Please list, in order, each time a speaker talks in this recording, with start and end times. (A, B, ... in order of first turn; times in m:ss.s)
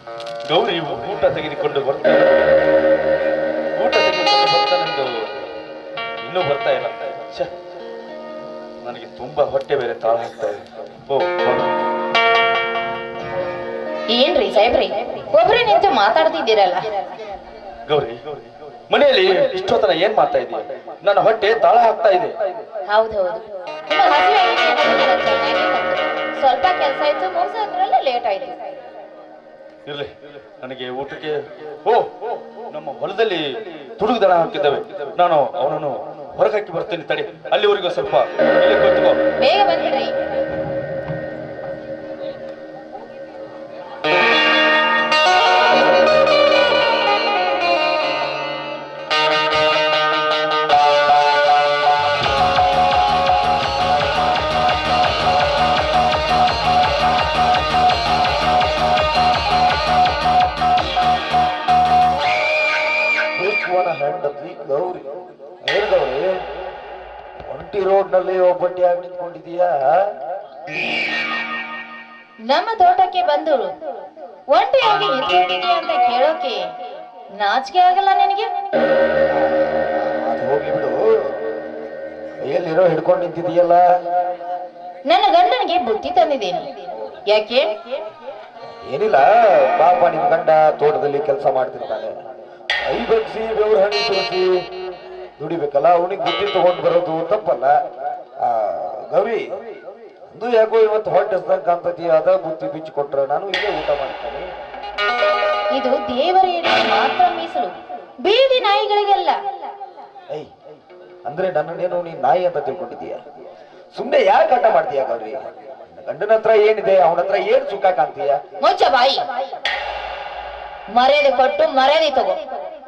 0:00.4-0:02.5 A
0:03.8-0:05.4 A
0:06.2-0:07.5 A
0:08.8-0:11.8 A
0:14.1-0:16.9 B
0:17.8-0:22.4 A
0:22.9-0:28.7 B
0:29.8-0:32.1 A
0:32.7-0:39.2 A
0:39.4-0:40.1 B
1:03.4-1:05.1 C
1:05.6-1:06.3 C
1:07.4-1:09.8 C
1:12.5-1:13.7 B
1:14.5-1:16.6 B
1:17.4-1:18.5 B
1:19.6-1:21.0 C
1:22.4-1:23.8 C
1:25.1-1:27.8 B
1:28.9-1:32.1 C
1:32.8-1:34.6 C
1:35.4-1:37.7 C
1:38.4-1:39.4 C
1:40.3-1:44.5 C
1:45.7-1:49.4 B
1:51.2-1:53.2 C
1:53.9-1:58.4 C
1:58.6-1:59.2 B
2:00.9-2:02.4 B